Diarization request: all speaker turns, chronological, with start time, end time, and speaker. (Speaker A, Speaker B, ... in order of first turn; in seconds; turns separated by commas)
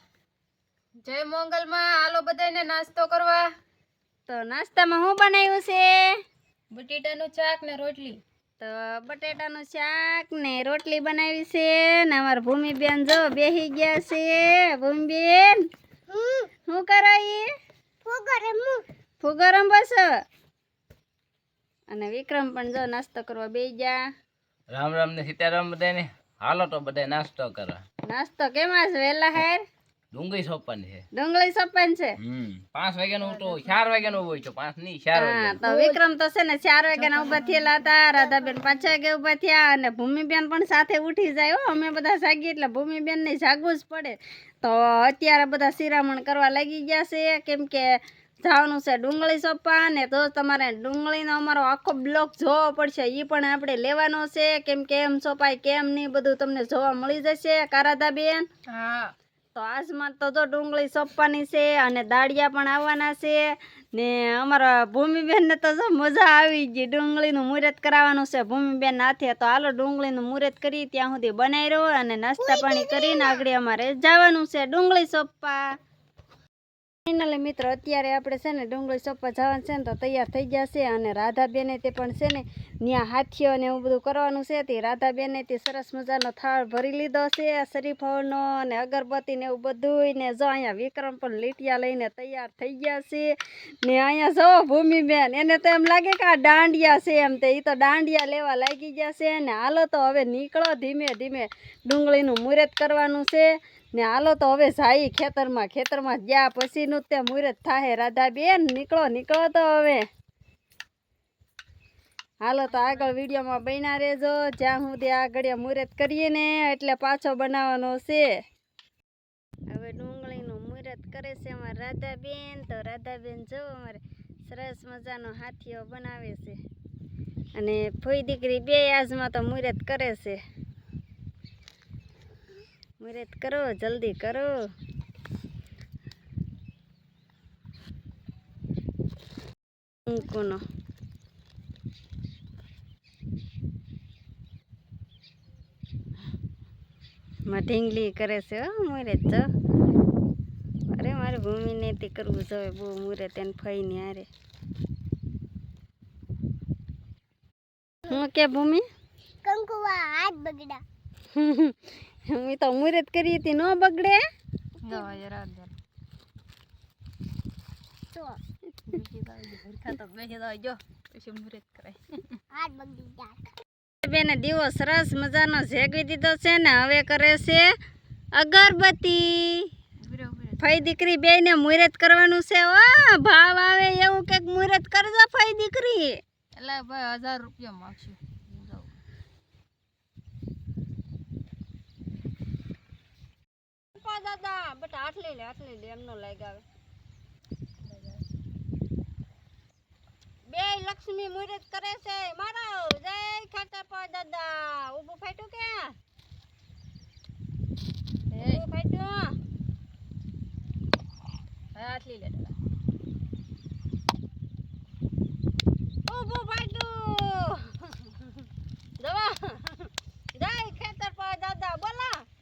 Speaker A: 1.0-3.5, Speaker B: 4.3-6.0, Speaker A: 6.7-8.2, Speaker B: 8.6-15.6, Speaker C: 16.1-16.5, Speaker B: 16.7-17.4, Speaker C: 18.0-18.8, Speaker B: 19.2-20.1, Speaker B: 21.9-24.0, Speaker D: 24.7-27.8, Speaker B: 28.1-29.6, Speaker D: 30.1-31.0, Speaker B: 31.1-32.2, Speaker D: 32.2-35.6, Speaker A: 33.2-33.9, Speaker B: 35.1-47.9, Speaker A: 35.6-36.0, Speaker A: 36.9-38.8, Speaker B: 48.4-58.4, Speaker A: 58.7-59.1, Speaker B: 59.5-75.6, Speaker C: 72.4-73.4, Speaker B: 77.1-110.0, Speaker B: 112.4-118.3, Speaker A: 112.8-113.1, Speaker B: 119.7-126.6, Speaker B: 127.6-130.4, Speaker B: 133.0-134.5, Speaker B: 140.1-140.6, Speaker B: 147.5-149.4, Speaker B: 150.9-154.3, Speaker B: 158.1-158.8, Speaker C: 159.4-160.8, Speaker B: 161.3-161.8, Speaker B: 162.3-164.2, Speaker A: 164.8-165.7, Speaker C: 164.8-165.1, Speaker C: 168.1-168.4, Speaker A: 168.9-172.4, Speaker C: 172.5-173.5, Speaker B: 174.0-177.6, Speaker B: 178.3-179.7, Speaker A: 180.0-180.7, Speaker B: 180.6-186.2, Speaker A: 186.6-188.9, Speaker B: 193.9-196.6, Speaker A: 197.8-198.2, Speaker B: 200.5-205.9, Speaker A: 208.3-208.6, Speaker B: 208.4-209.3, Speaker A: 211.7-212.5, Speaker B: 216.1-218.2, Speaker B: 219.0-222.2